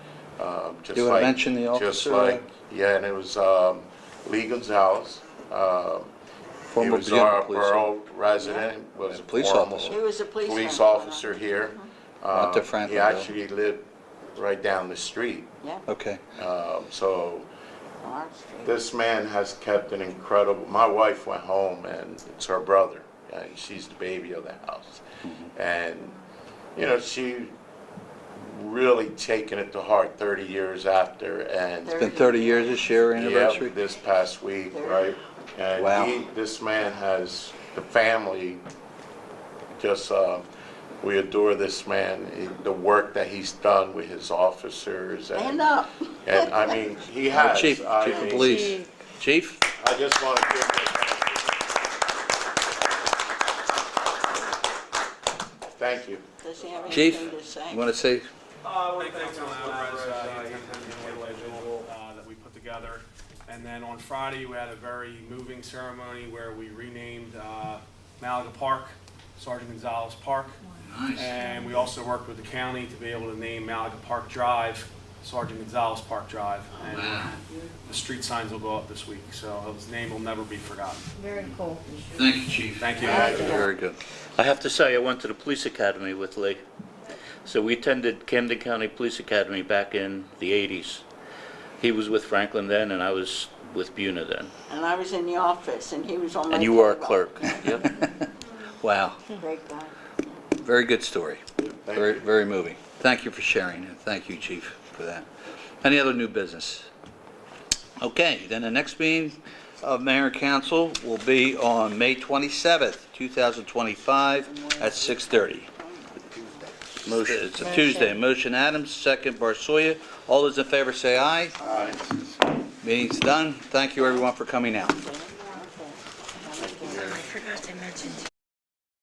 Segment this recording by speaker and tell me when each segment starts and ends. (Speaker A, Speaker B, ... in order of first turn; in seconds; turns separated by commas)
Speaker A: 0.4-6.1, Speaker B: 0.9-2.4, Speaker B: 6.7-7.9, Speaker A: 6.8-15.5, Speaker C: 8.4-8.7, Speaker B: 9.0-10.0, Speaker C: 9.9-11.9, Speaker B: 12.3-13.3, Speaker B: 15.9-16.2, Speaker A: 16.4-17.5, Speaker C: 18.0-18.7, Speaker A: 18.6-26.1, Speaker A: 26.8-27.5, Speaker A: 28.4-32.1, Speaker C: 31.8-32.9, Speaker B: 32.0-33.8, Speaker A: 33.1-38.6, Speaker C: 34.7-35.1, Speaker B: 35.8-36.2, Speaker A: 39.7-40.5, Speaker A: 41.0-48.8, Speaker C: 45.3-46.7, Speaker B: 47.3-49.6, Speaker C: 48.1-48.4, Speaker A: 49.8-51.5, Speaker A: 55.8-56.2, Speaker C: 56.4-57.9, Speaker A: 56.9-57.2, Speaker B: 56.9-58.3, Speaker D: 58.7-70.6, Speaker E: 58.7-61.9, Speaker B: 70.8-71.4, Speaker D: 71.1-77.3, Speaker E: 71.4-71.8, Speaker B: 76.8-77.4, Speaker D: 77.8-81.1, Speaker E: 81.2-81.8, Speaker B: 82.1-84.0, Speaker D: 82.8-83.6, Speaker C: 83.0-83.7, Speaker A: 83.0-83.6, Speaker F: 84.3-86.6, Speaker F: 87.4-91.0, Speaker F: 91.8-94.5, Speaker C: 94.7-97.7, Speaker F: 96.5-97.9, Speaker B: 97.8-98.3, Speaker B: 98.8-99.3, Speaker C: 99.4-100.4, Speaker B: 100.6-101.4, Speaker A: 101.6-102.3, Speaker B: 101.9-105.3, Speaker B: 105.8-106.9, Speaker B: 108.0-115.7, Speaker C: 114.4-116.7, Speaker B: 117.0-121.6, Speaker F: 117.1-117.5, Speaker A: 121.6-122.0, Speaker B: 122.8-125.0, Speaker C: 124.0-127.4, Speaker A: 126.6-127.3, Speaker E: 127.6-128.1